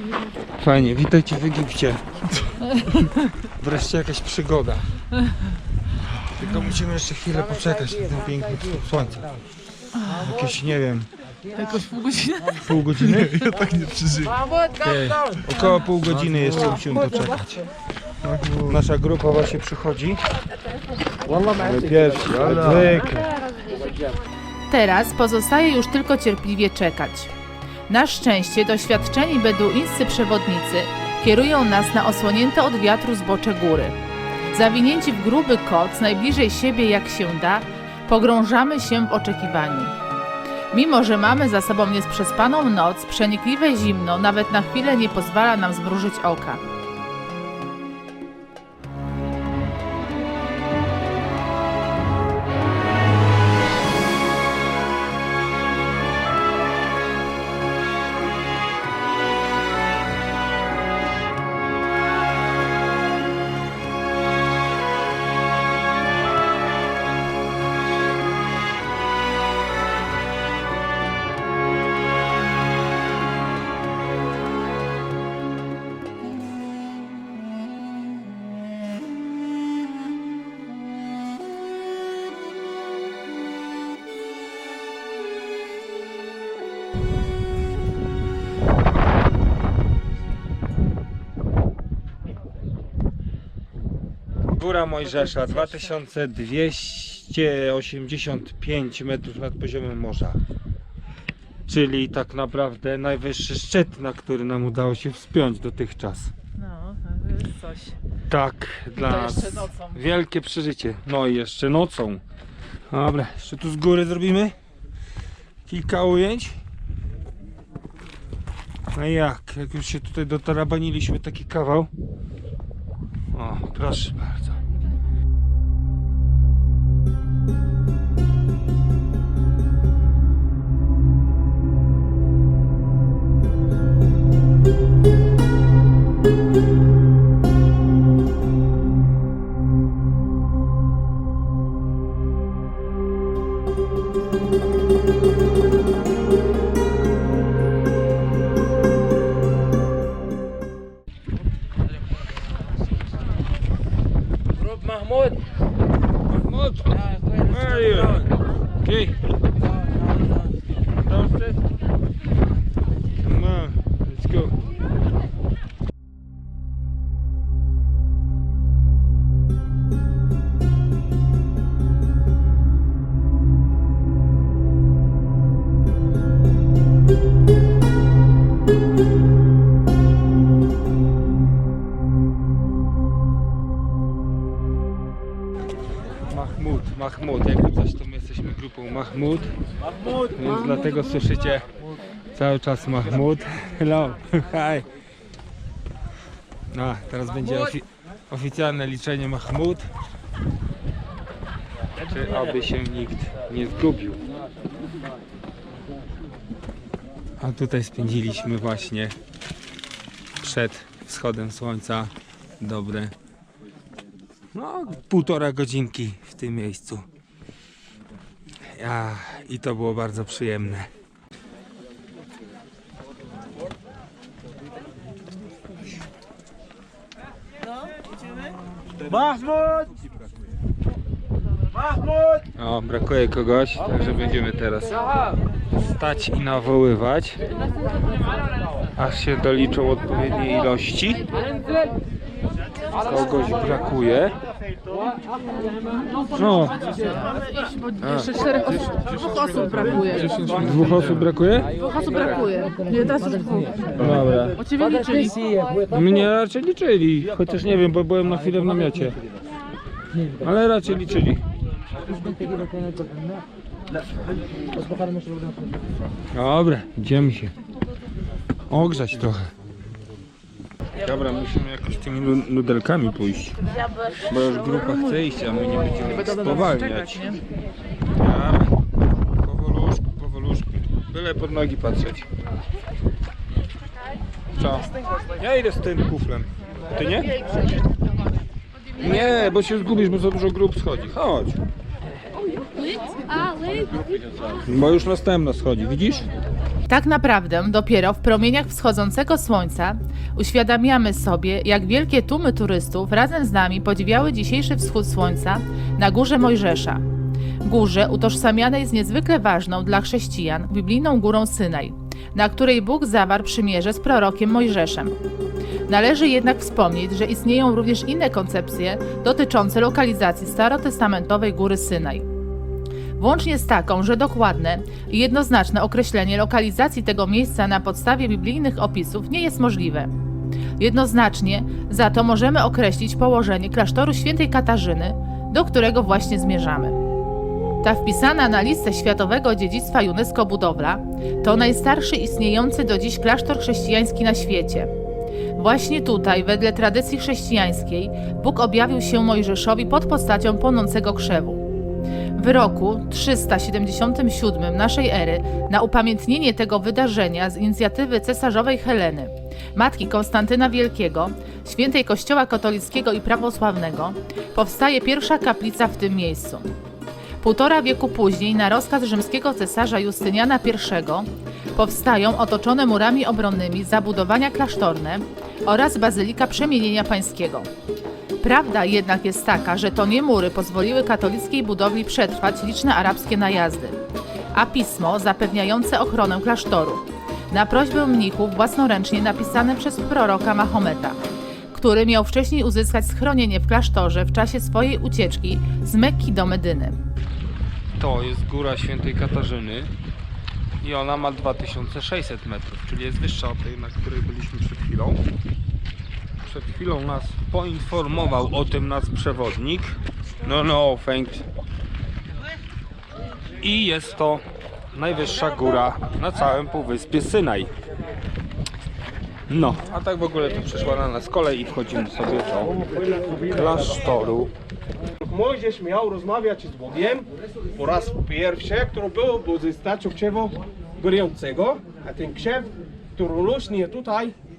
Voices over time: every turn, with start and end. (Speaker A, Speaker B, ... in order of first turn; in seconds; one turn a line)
Speaker A: 0.6-4.9
Speaker A: 6.2-9.3
Speaker A: 10.0-11.1
Speaker B: 11.8-12.4
Speaker A: 12.5-17.7
Speaker A: 18.4-20.2
Speaker A: 21.4-23.3
Speaker B: 24.7-27.3
Speaker B: 27.9-34.0
Speaker B: 34.5-39.9
Speaker B: 40.7-46.6
Speaker A: 94.5-100.4
Speaker A: 101.7-106.3
Speaker B: 106.6-108.0
Speaker A: 108.3-112.2
Speaker B: 109.2-109.9
Speaker A: 112.9-114.5
Speaker A: 115.7-116.6
Speaker A: 118.9-121.9
Speaker A: 123.3-124.6
Speaker A: 156.3-159.2
Speaker A: 161.0-161.6
Speaker A: 163.2-164.6
Speaker A: 186.3-189.5
Speaker A: 190.1-191.6
Speaker A: 192.3-194.9
Speaker A: 196.7-199.9
Speaker A: 202.0-204.2
Speaker A: 207.4-209.1
Speaker A: 210.4-213.1
Speaker A: 214.5-217.1
Speaker A: 218.7-220.9
Speaker A: 232.6-235.0
Speaker A: 235.8-237.4
Speaker A: 238.9-241.2
Speaker A: 242.9-244.3
Speaker A: 246.3-246.8
Speaker B: 247.6-248.0
Speaker A: 248.0-248.4
Speaker B: 248.5-249.9
Speaker A: 249.7-251.8
Speaker B: 252.0-253.7
Speaker A: 253.9-254.7
Speaker B: 254.8-255.3
Speaker A: 255.8-259.2
Speaker A: 260.4-261.4
Speaker A: 266.3-267.5
Speaker A: 268.7-269.5
Speaker A: 271.0-273.6
Speaker A: 274.2-277.4
Speaker A: 278.2-278.7
Speaker A: 279.4-282.3
Speaker A: 284.6-287.3
Speaker A: 289.0-291.6
Speaker A: 294.6-296.3
Speaker B: 296.9-307.0
Speaker B: 307.6-315.1
Speaker B: 315.9-322.3
Speaker B: 323.2-330.1
Speaker B: 330.8-337.0
Speaker B: 337.8-344.9
Speaker B: 345.6-351.6
Speaker B: 352.4-366.7
Speaker B: 367.4-377.7
Speaker B: 378.4-384.0
Speaker B: 384.5-391.2
Speaker B: 391.7-397.0
Speaker A: 398.0-399.9
Speaker A: 400.8-405.2
Speaker A: 406.4-411.4
Speaker A: 413.6-417.7
Speaker A: 419.5-422.8
Speaker A: 423.4-424.5
Speaker C: 425.2-434.3